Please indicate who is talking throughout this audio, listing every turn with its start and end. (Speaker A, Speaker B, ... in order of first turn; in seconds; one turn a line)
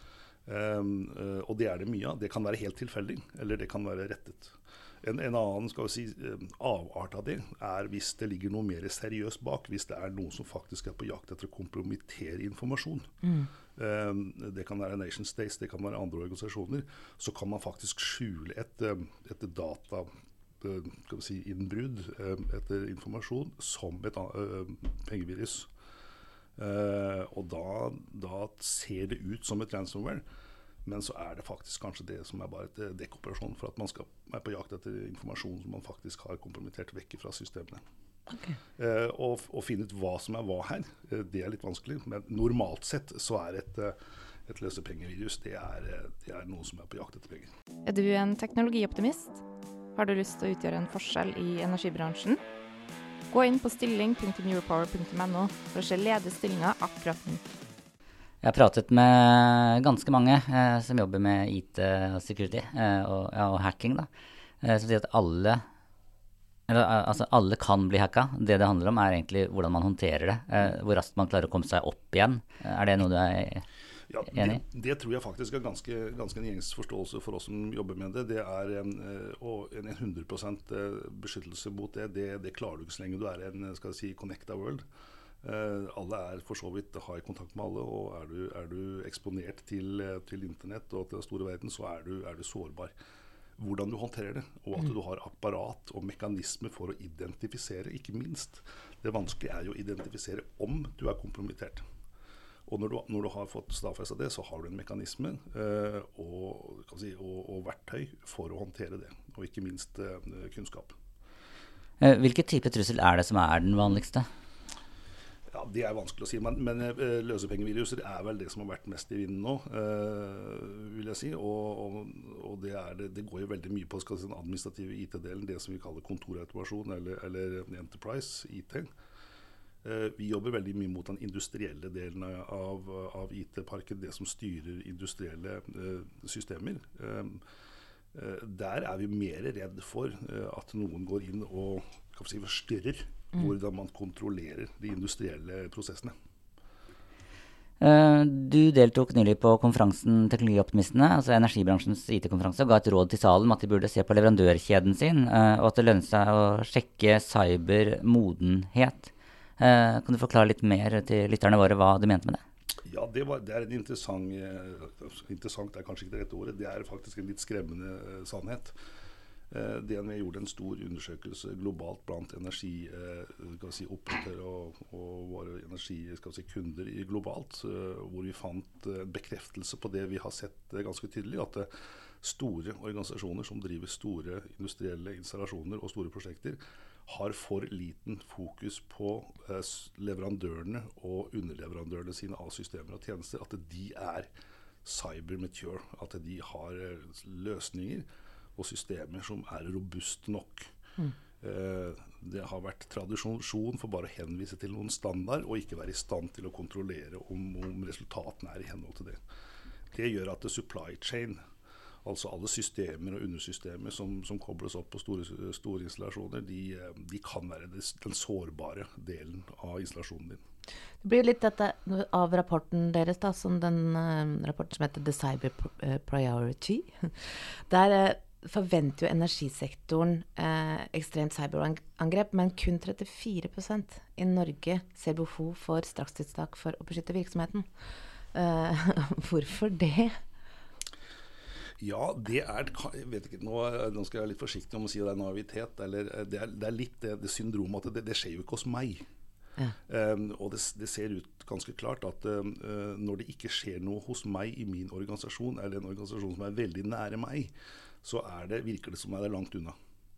Speaker A: 0.5-13.1
Speaker B: 13.2-13.5
Speaker A: 13.8-20.1
Speaker A: 20.6-25.7
Speaker A: 26.6-30.2
Speaker A: 30.8-37.8
Speaker B: 38.3-38.6
Speaker A: 38.8-47.5
Speaker C: 47.9-49.4
Speaker C: 49.9-52.4
Speaker C: 53.3-57.4
Speaker D: 58.4-64.1
Speaker D: 64.6-65.6
Speaker D: 66.7-73.6
Speaker A: 74.1-84.8
Speaker D: 74.3-74.6
Speaker A: 85.4-92.9
Speaker A: 93.6-101.8
Speaker A: 102.7-110.9
Speaker D: 112.0-114.3
Speaker A: 115.5-128.9
Speaker A: 129.8-137.4
Speaker A: 138.1-146.1
Speaker D: 147.8-162.4
Speaker A: 162.8-168.7
Speaker A: 169.5-181.7
Speaker A: 182.2-194.3
Speaker A: 194.8-200.7
Speaker A: 201.4-209.2
Speaker A: 209.9-211.4
Speaker A: 212.0-220.4
Speaker B: 221.0-237.7
Speaker B: 238.3-240.2
Speaker A: 241.8-249.0
Speaker A: 249.9-259.7